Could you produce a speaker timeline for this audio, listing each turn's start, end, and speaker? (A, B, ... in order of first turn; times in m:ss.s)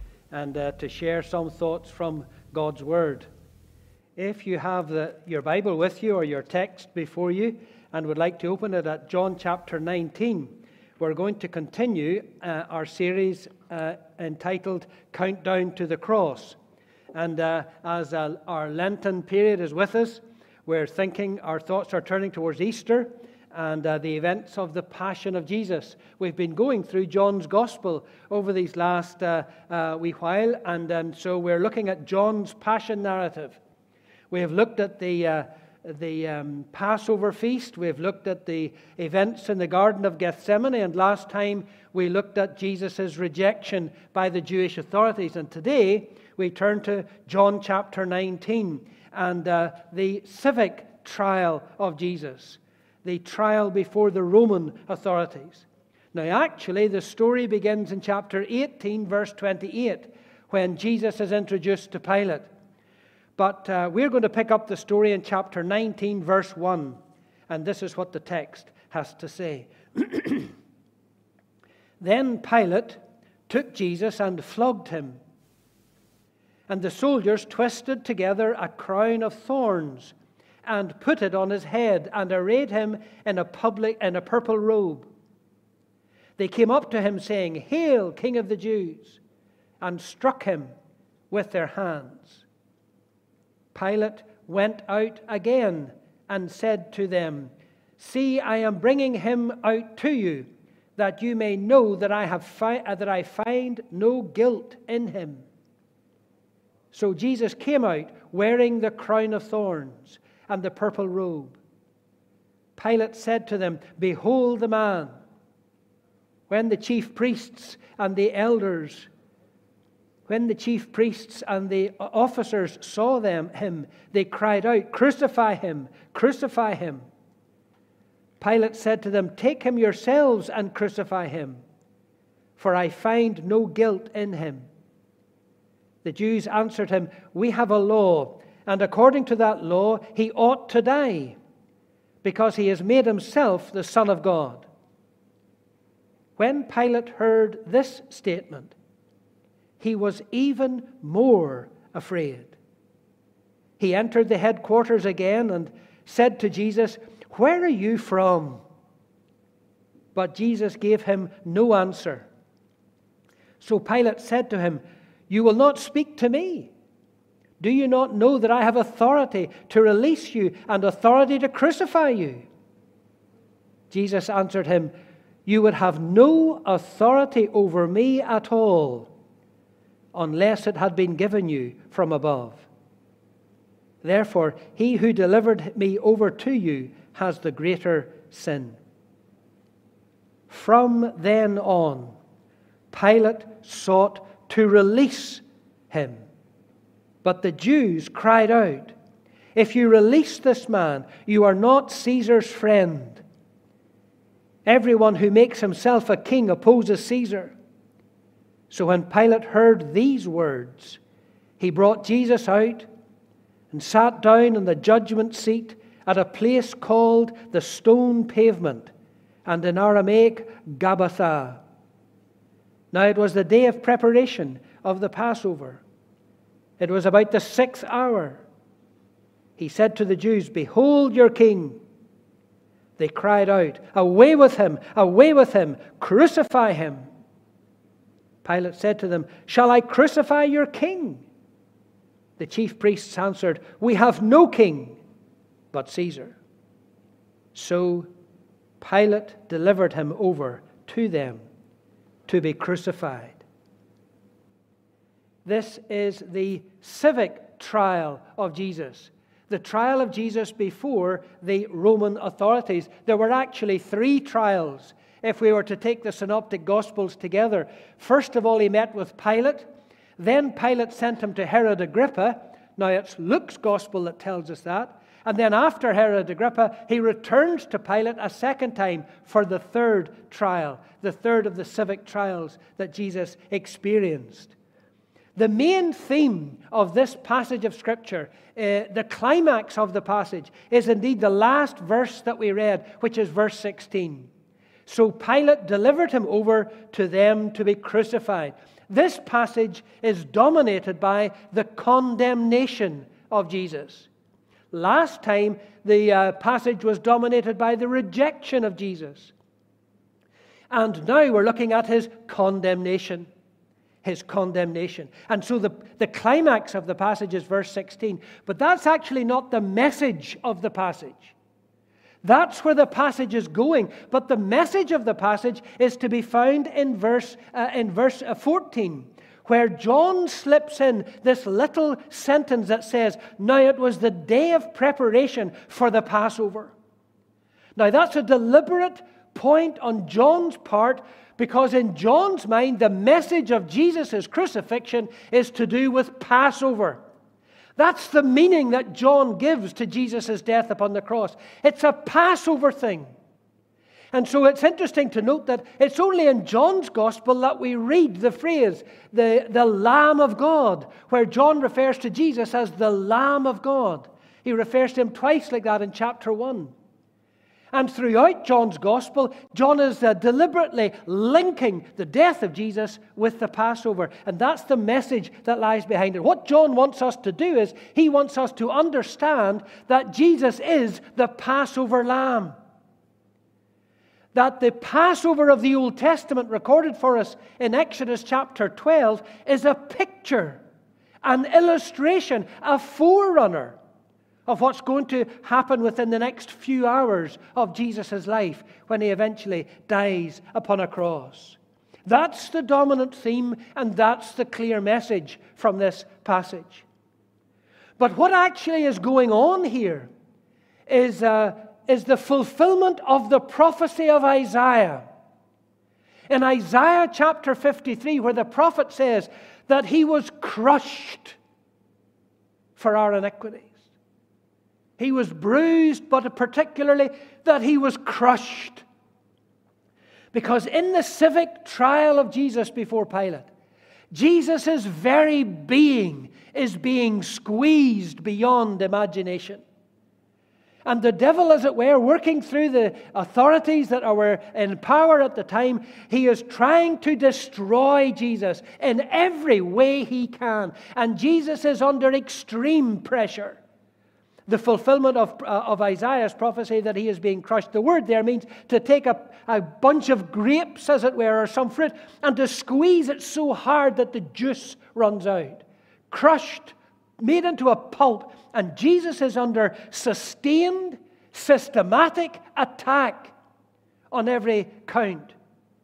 0:00.3-0:03.3 A
0:04.2-0:16.6 A
0:17.1-0:33.6 A
0:34.3-1:02.5 A
1:03.4-1:07.0 A
1:07.5-1:10.5 A
1:12.0-1:15.2 A
1:16.7-1:25.1 A
1:26.4-1:29.2 A
1:29.8-1:30.7 A
1:31.3-1:32.5 A
1:33.7-1:45.5 A
1:46.9-1:51.6 A
1:52.8-1:55.1 A
1:56.5-1:59.1 A
2:00.3-2:07.0 A
2:08.4-2:11.6 A
2:12.6-2:14.7 A
2:16.0-2:21.4 A
2:22.2-2:24.7 A
2:26.4-2:28.8 A
2:29.8-2:32.6 A
2:33.8-2:38.6 A
2:40.2-2:42.3 A
2:43.6-2:46.7 A
2:47.6-2:52.5 A
2:53.9-2:54.9 A
2:55.5-2:59.1 A
3:00.1-3:02.6 A
3:04.0-3:08.8 A
3:10.5-3:12.2 A
3:12.9-3:16.2 A
3:17.2-3:19.0 A
3:19.6-3:23.2 A
3:24.7-3:27.6 A
3:28.7-3:31.0 A
3:31.6-3:32.9 A
3:33.7-3:38.9 A
3:39.5-3:41.6 A
3:42.9-3:45.8 A
3:46.8-3:48.4 A
3:49.6-3:51.8 A
3:53.0-3:57.1 A
3:58.4-4:01.3 A
4:02.4-4:05.0 A
4:05.7-4:06.4 A
4:07.5-4:08.1 A
4:08.8-4:11.4 A
4:12.3-4:13.4 A
4:15.4-4:29.7 A
4:30.2-4:44.5 A
4:45.4-4:54.3 A
4:54.9-5:04.1 A
5:04.7-5:09.3 A
5:10.7-5:13.3 A
5:14.0-5:21.4 A
5:22.2-5:36.7 A
5:37.8-5:47.0 A
5:47.8-5:53.1 A
5:54.1-6:06.7 A
6:07.7-6:22.6 A
6:24.3-6:30.6 A
6:31.2-6:33.8 A
6:34.5-6:46.9 A
6:48.0-6:50.1 A
6:50.9-6:55.0 A
6:56.3-7:01.4 A
7:02.8-7:03.8 A
7:05.0-7:08.8 A
7:10.3-7:13.5 A
7:14.1-7:19.6 A
7:20.9-7:33.6 A
7:34.5-7:53.3 A
7:54.1-7:55.4 A